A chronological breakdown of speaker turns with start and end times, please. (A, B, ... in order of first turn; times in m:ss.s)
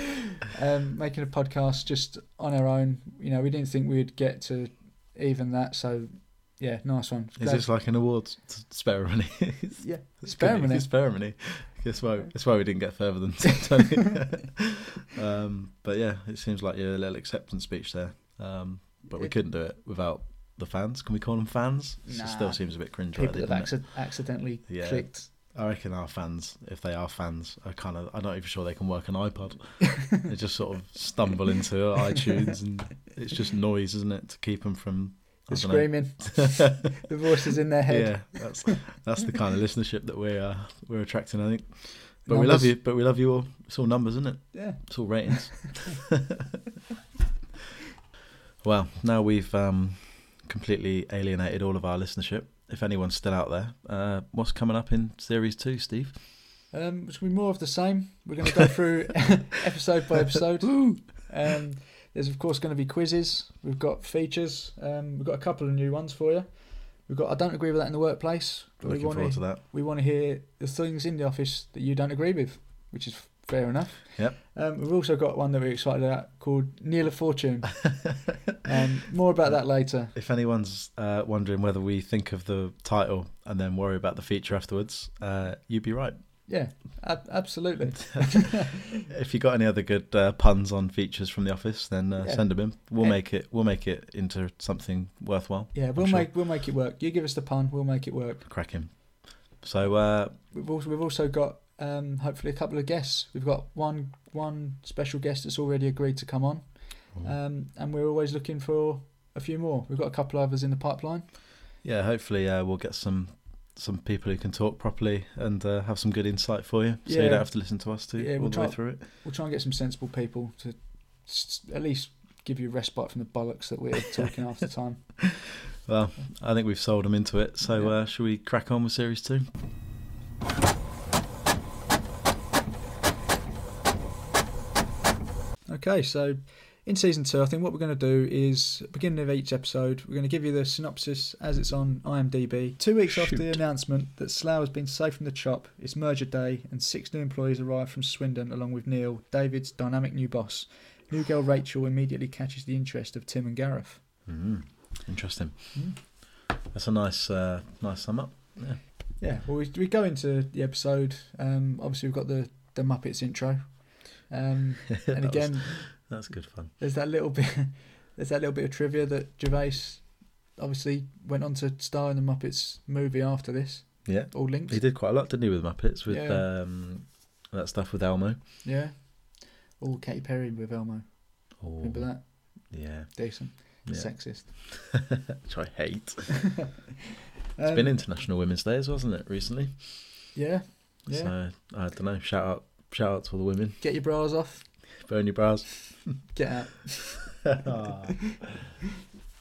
0:00.4-0:07.7 A
0:07.4-0:36.7 B
0:09.8-0:10.9 A
0:19.1-0:19.4 A
0:22.0-0:25.3 A
0:35.5-0:38.9 A
0:37.9-0:46.2 B
0:42.2-0:42.8 A
0:44.5-0:45.6 A
0:48.6-0:56.2 B
0:56.7-1:20.1 A
1:08.8-1:09.6 B
1:19.4-1:26.2 B
1:26.5-1:28.8 A
1:28.0-1:36.3 B
1:32.2-1:33.2 A
1:35.7-1:38.5 A
1:38.4-1:40.4 B
1:40.5-1:51.3 A
1:51.8-1:59.0 B
1:57.0-2:05.2 A
2:05.8-2:09.5 B
2:15.7-2:34.0 A
2:34.2-2:36.0 B
2:36.7-2:38.8 B
2:39.2-2:54.8 A
2:45.0-2:46.7 B
2:54.0-2:58.4 B
2:56.1-2:56.4 A
2:58.6-3:04.5 A
3:01.6-3:02.2 B
3:02.7-3:06.6 B
3:07.6-3:08.0 A
3:07.6-3:10.0 B
3:10.3-3:11.3 A
3:11.1-3:13.8 B
3:13.8-3:14.7 A
3:15.0-3:16.2 B
3:16.3-3:17.5 A
3:17.6-3:18.5 B